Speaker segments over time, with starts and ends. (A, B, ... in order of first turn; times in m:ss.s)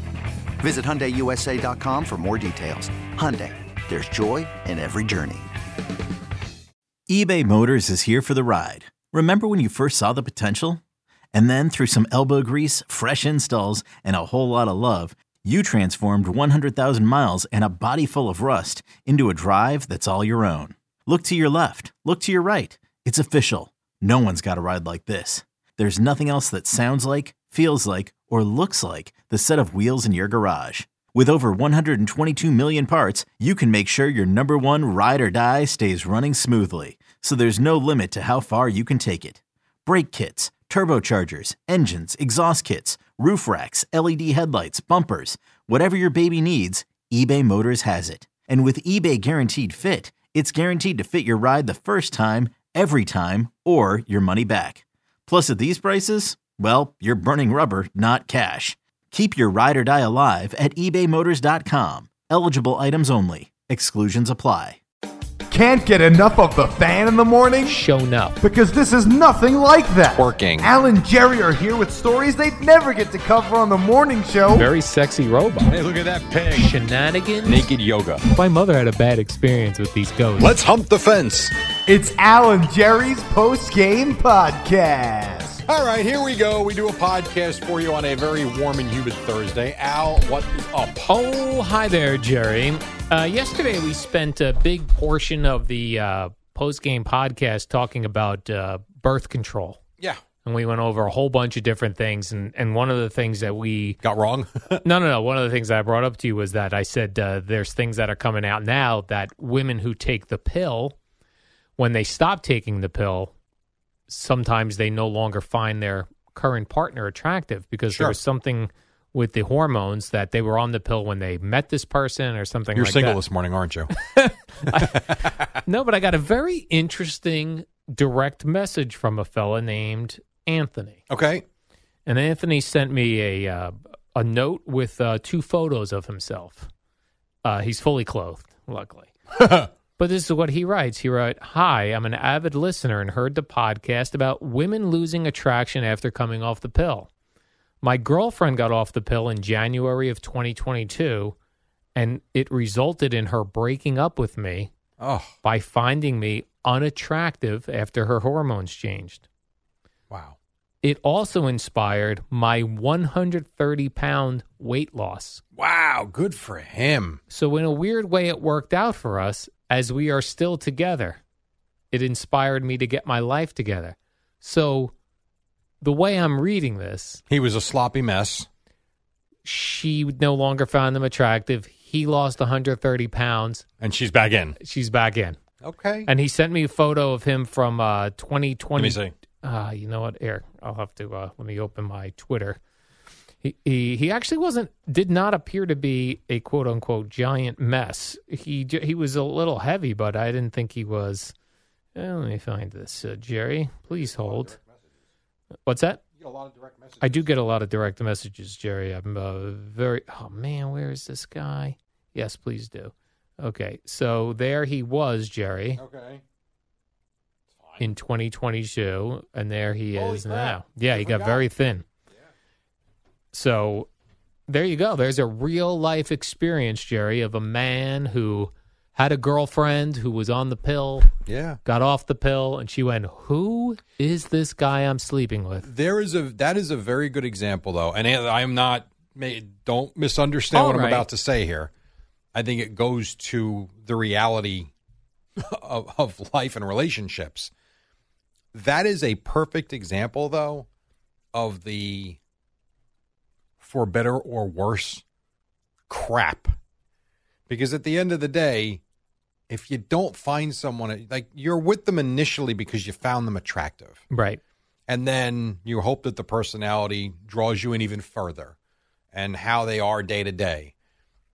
0:00.6-0:05.5 A
0:07.1-0:10.8 B
0:11.3-1:04.8 B
1:05.5-1:07.8 C
1:07.7-1:08.4 D
1:08.4-1:14.7 C
1:10.1-1:10.7 E
1:14.5-1:15.8 D
1:15.6-1:16.7 E
1:16.5-1:17.7 D
1:17.4-1:18.2 E
1:18.3-1:20.6 D
1:20.4-1:21.5 E
1:21.9-1:25.6 C
1:25.7-1:31.1 E
1:31.1-1:39.8 D
1:40.4-1:44.0 D
1:44.0-1:44.8 E
1:44.8-1:51.0 D
1:51.8-1:53.3 D
1:54.1-2:03.2 D
1:57.9-1:58.2 E
2:02.8-2:03.9 E
2:03.9-2:11.0 D
2:04.7-2:05.3 E
2:11.1-2:11.4 E
2:12.1-2:16.7 D
2:17.4-2:19.1 D
2:20.0-2:27.1 D
2:27.8-2:31.4 D
2:32.0-2:34.7 D
2:35.0-2:35.3 E
2:35.4-2:39.2 D
2:40.1-2:40.4 E
2:40.8-2:45.4 D
2:45.6-2:47.2 E
2:47.3-2:51.2 D
2:51.9-2:54.9 D
2:55.8-2:57.2 D
2:57.3-2:58.5 E
2:59.4-3:03.6 D
3:03.8-3:04.6 E
3:04.6-3:05.4 D
3:05.6-3:06.1 E
3:06.1-3:12.6 D
3:08.8-3:09.1 E
3:13.4-3:21.3 D
3:22.0-3:24.6 D
3:24.0-3:24.6 E
3:25.7-3:26.0 D
3:26.2-3:27.3 E
3:27.0-3:35.8 D
3:35.8-3:36.2 E
3:37.6-3:37.9 E
3:37.8-3:41.8 D
3:39.9-3:41.5 E
3:43.3-3:43.9 D
3:44.5-3:51.1 D
3:51.3-3:51.6 E
3:51.6-3:55.7 D
3:55.6-4:01.7 E
4:00.5-4:01.0 D
4:02.3-4:04.7 E
4:05.4-4:07.5 E
4:08.5-4:10.7 E
4:11.3-4:12.2 E
4:13.6-4:15.0 E
4:15.9-4:16.6 E
4:17.5-4:18.8 E
4:19.5-4:24.0 E
4:24.1-4:24.4 D
4:24.9-4:28.5 E
4:29.1-4:30.7 E